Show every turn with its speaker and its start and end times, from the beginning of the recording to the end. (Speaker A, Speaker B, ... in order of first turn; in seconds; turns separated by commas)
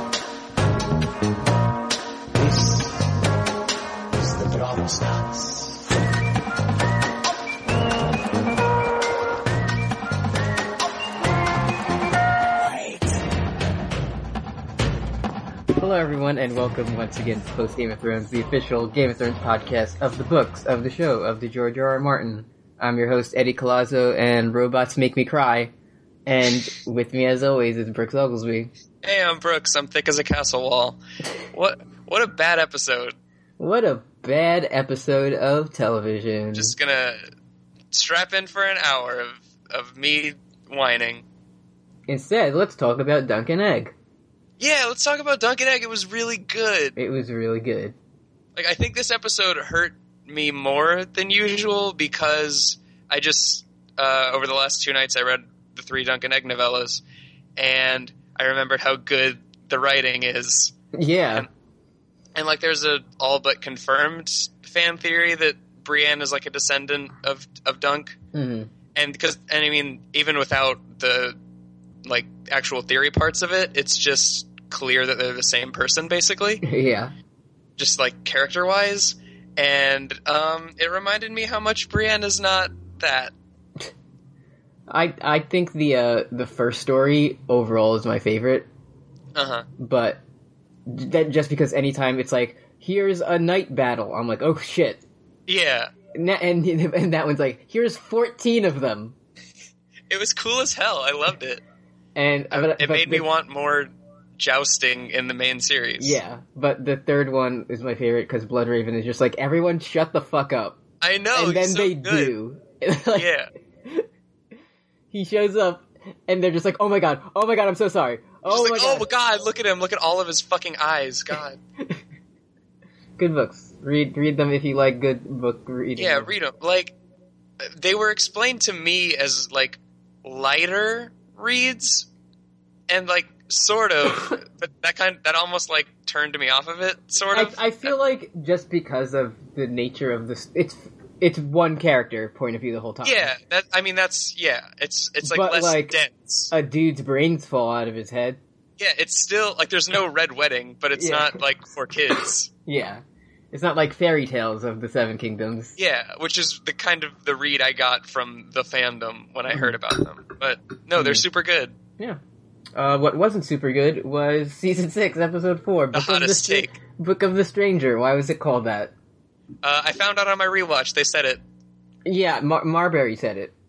Speaker A: 2.4-3.1, Speaker A: 4.1-5.8, Speaker B: 15.8-25.7, Speaker B: 26.3-28.7, Speaker C: 29.0-31.0, Speaker C: 31.5-33.1, Speaker B: 33.6-36.7, Speaker C: 36.5-37.2, Speaker C: 37.9-41.2, Speaker B: 42.1-43.9, Speaker C: 44.6-47.0, Speaker B: 47.0-48.0, Speaker C: 48.6-57.0, Speaker C: 57.6-60.7, Speaker B: 60.9-61.5, Speaker C: 62.4-68.2, Speaker B: 68.3-68.7, Speaker C: 69.0-71.4, Speaker C: 72.0-76.6, Speaker B: 76.6-77.1, Speaker C: 77.8-83.3, Speaker B: 84.9-88.7, Speaker C: 89.3-89.7, Speaker B: 89.8-90.2, Speaker B: 90.9-95.0, Speaker C: 95.5-95.9, Speaker B: 96.1-99.2, Speaker C: 100.1-101.6, Speaker B: 102.2-103.3, Speaker C: 102.5-106.2, Speaker B: 106.0-110.8, Speaker C: 111.0-112.3, Speaker B: 111.3-113.3, Speaker C: 113.1-113.5, Speaker B: 115.1-119.1, Speaker C: 118.5-121.6, Speaker B: 123.2-126.3, Speaker C: 126.0-127.0, Speaker C: 127.6-132.1, Speaker C: 132.9-137.9, Speaker B: 137.3-143.3, Speaker C: 143.0-146.5, Speaker B: 145.2-146.0, Speaker B: 146.5-148.4, Speaker C: 148.8-152.5, Speaker B: 150.9-151.4, Speaker B: 152.7-155.8, Speaker C: 155.8-161.7, Speaker B: 161.0-161.2, Speaker B: 162.8-168.9, Speaker C: 165.9-166.8, Speaker C: 169.6-171.4, Speaker B: 172.1-173.5